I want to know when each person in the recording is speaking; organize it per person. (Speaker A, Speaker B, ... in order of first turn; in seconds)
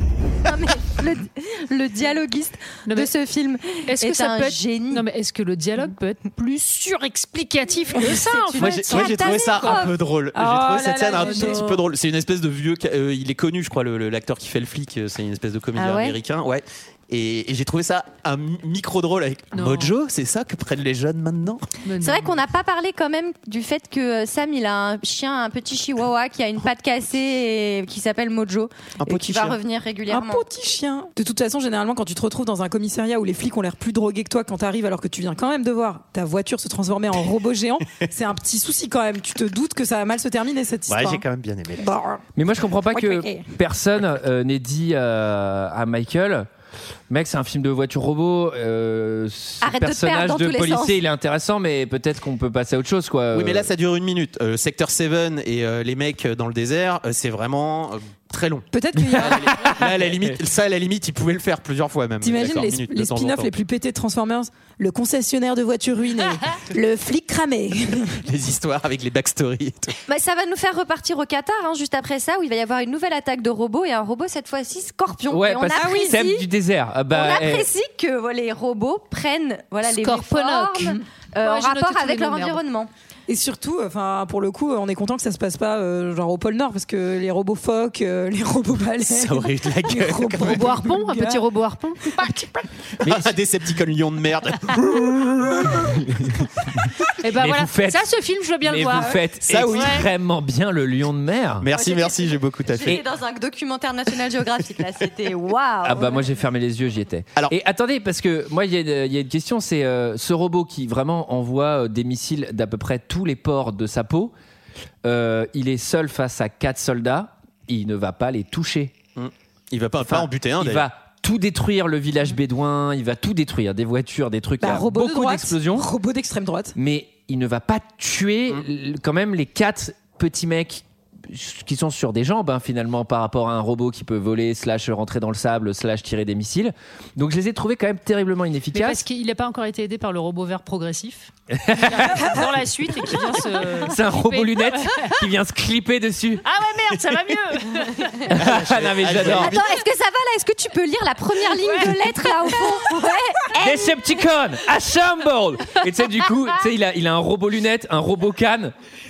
Speaker A: 0.5-5.0, 8.0-9.9, 15.8-16.1, 22.0-30.4, 49.6-51.0, 70.1-76.5, 77.1-82.9, 101.7-106.2, 149.2-154.1
Speaker B: 2.9-3.1, 3.9-9.9, 11.1-11.8, 19.5-19.9, 21.8-22.3, 79.8-82.6, 90.4-92.4, 97.2-99.2, 99.7-100.0, 138.7-141.3, 141.8-145.2, 146.4-148.2, 151.6-152.6
Speaker C: 8.6-21.6, 29.0-29.6, 40.9-41.9, 53.3-63.5, 68.2-69.9, 89.0-90.7, 93.0-95.7, 99.4-100.1, 101.6-103.0, 119.2-120.9, 148.3-149.7
Speaker D: 10.3-11.7, 29.1-29.5, 30.1-41.2, 41.8-42.2, 42.9-43.4, 58.7-59.6, 62.2-68.2, 75.7-76.2, 83.3-91.4, 124.6-126.7
Speaker E: 42.4-46.5, 47.1-53.7, 59.0-60.3, 75.3-77.7, 93.0-93.3, 95.9-96.3, 96.8-98.0, 98.6-101.7, 105.8-114.3, 115.0-118.9, 120.0-125.9, 126.8-139.0, 141.5-142.4, 143.8-146.4, 148.3-149.6, 153.6-158.7